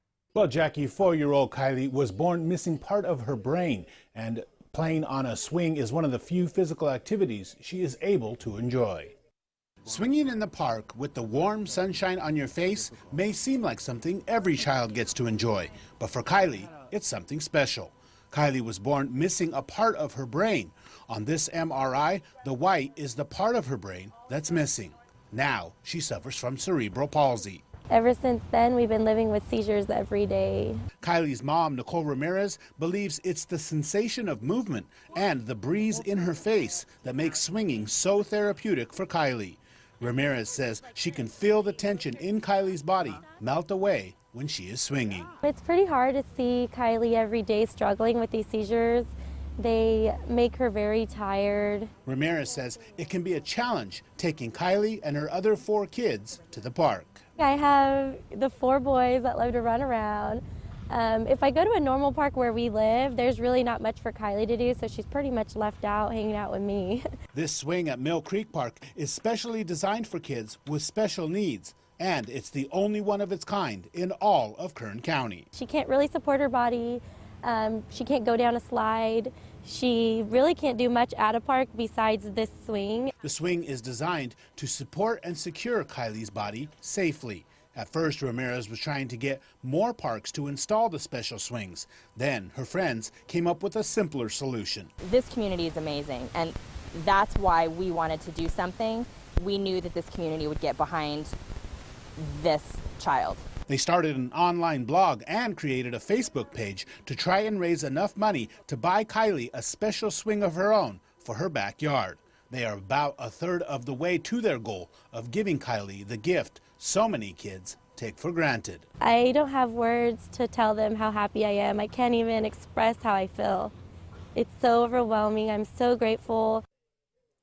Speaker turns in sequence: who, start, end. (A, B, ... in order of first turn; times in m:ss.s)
0:00.3-0:09.1 A
0:09.8-0:27.6 A
0:27.9-0:30.8 B
0:31.0-0:45.3 A
0:45.4-0:51.9 B
0:52.0-0:57.2 A
0:57.4-1:07.0 B
1:07.3-1:15.4 A
1:15.5-1:23.1 B
1:23.2-1:34.9 A
1:35.0-1:41.3 C
1:42.2-1:43.4 C
1:43.7-1:58.8 A
1:59.0-2:03.7 B
2:04.4-2:06.6 B